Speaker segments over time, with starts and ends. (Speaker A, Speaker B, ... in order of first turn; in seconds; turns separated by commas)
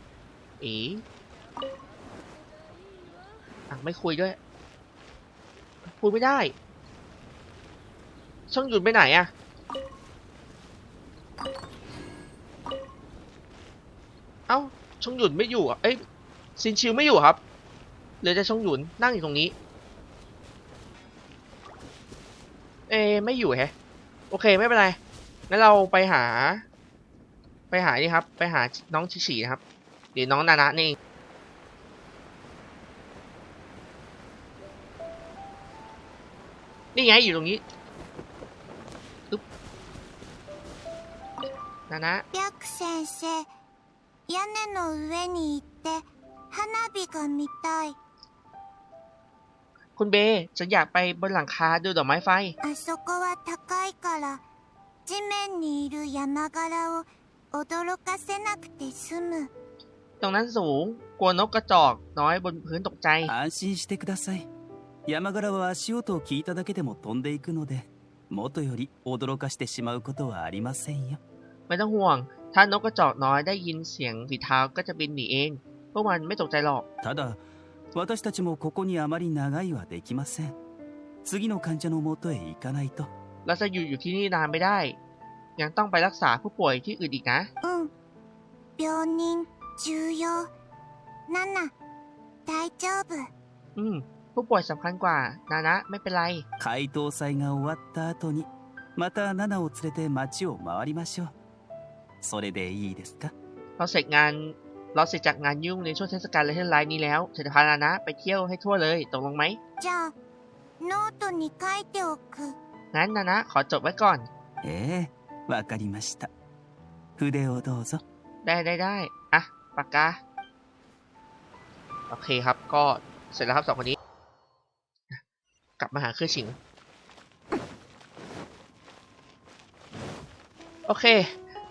Speaker A: 0.6-1.0, Speaker A: 3.7-4.4, Speaker A: 5.9-6.5, Speaker A: 8.5-9.3, Speaker A: 14.5-16.0, Speaker A: 16.6-17.4, Speaker A: 18.2-19.5, Speaker A: 22.9-23.7, Speaker A: 24.3-26.6, Speaker A: 27.7-29.6, Speaker A: 30.1-31.0, Speaker A: 36.9-37.6, Speaker A: 41.9-42.2, Speaker B: 42.3-43.5, Speaker B: 44.3-48.0, Speaker A: 50.0-52.5, Speaker B: 52.6-54.4, Speaker B: 55.0-59.5, Speaker A: 60.2-63.3, Speaker C: 63.3-64.5, Speaker C: 65.0-71.2, Speaker A: 71.7-76.8, Speaker C: 77.0-77.4, Speaker C: 77.9-80.5, Speaker C: 81.2-83.1, Speaker A: 83.5-85.0, Speaker A: 85.6-87.5, Speaker B: 87.6-87.9, Speaker B: 88.8-90.5, Speaker B: 91.3-91.7, Speaker B: 92.5-93.3, Speaker A: 93.8-96.4, Speaker C: 96.6-101.3, Speaker C: 102.2-103.3, Speaker A: 103.8-109.6, Speaker B: 109.8-110.1, Speaker B: 110.8-112.5, Speaker A: 112.9-114.3, Speaker C: 114.6-116.3, Speaker C: 117.2-118.0, Speaker A: 118.4-120.2, Speaker A: 122.1-124.0, Speaker A: 125.8-126.6, Speaker A: 130.9-131.3